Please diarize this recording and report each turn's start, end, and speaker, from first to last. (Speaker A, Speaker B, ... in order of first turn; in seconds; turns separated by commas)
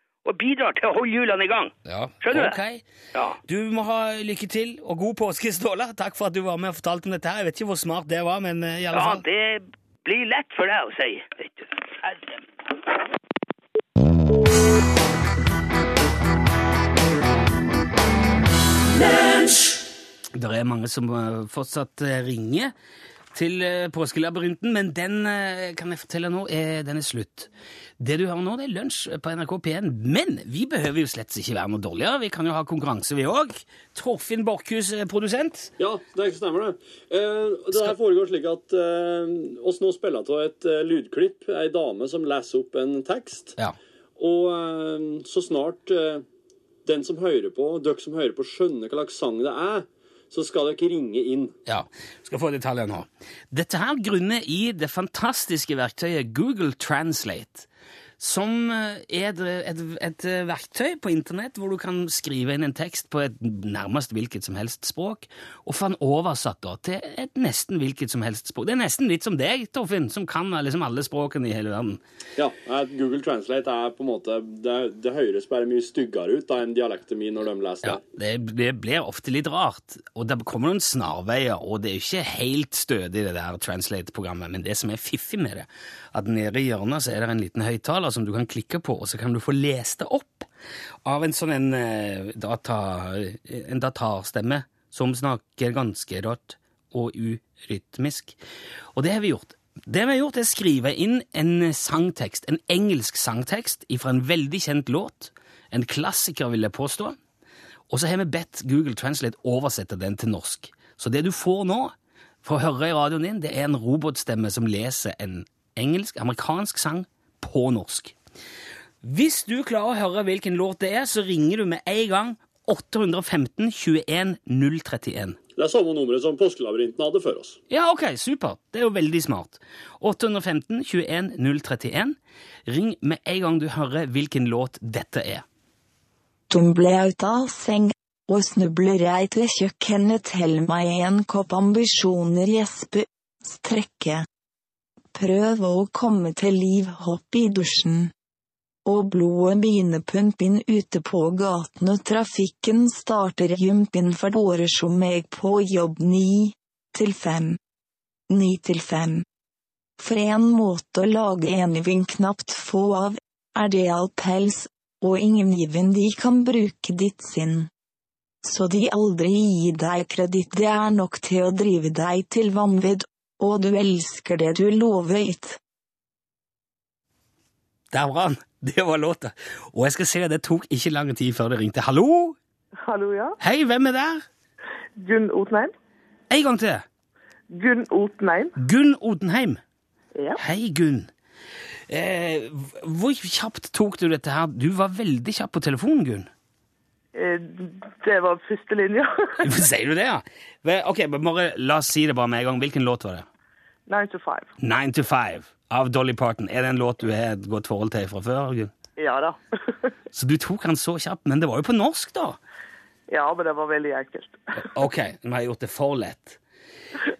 Speaker A: 0.2-2.6, Speaker B: 1.8-2.8, Speaker A: 3.1-3.4, Speaker B: 3.5-9.2, Speaker A: 8.9-12.4, Speaker B: 20.4-22.7, Speaker B: 23.3-35.7, Speaker C: 35.8-43.6, Speaker C: 44.2-46.2, Speaker C: 46.9-51.5, Speaker B: 51.7-57.7, Speaker B: 58.2-72.0, Speaker C: 72.4-78.0, Speaker B: 77.8-90.5, Speaker B: 91.0-98.4, Speaker B: 98.9-107.2, Speaker B: 107.9-118.1, Speaker B: 119.0-125.4, Speaker C: 125.6-127.6, Speaker B: 127.7-135.4, Speaker D: 136.5-144.2, Speaker D: 145.1-148.1, Speaker D: 148.8-157.6, Speaker D: 158.3-159.2, Speaker D: 160.0-167.7, Speaker D: 168.4-175.6, Speaker B: 177.9-182.3, Speaker E: 182.8-183.4, Speaker B: 183.4-184.2, Speaker E: 185.0-185.7, Speaker B: 186.3-186.8, Speaker E: 187.5-188.5, Speaker B: 188.6-189.6, Speaker B: 190.4-191.1, Speaker B: 191.9-196.3, Speaker E: 197.1-199.4, Speaker B: 199.4-203.2, Speaker E: 203.9-204.5, Speaker B: 204.6-208.7, Speaker E: 209.0-209.9, Speaker B: 210.1-212.4, Speaker E: 213.1-214.4, Speaker B: 214.6-216.4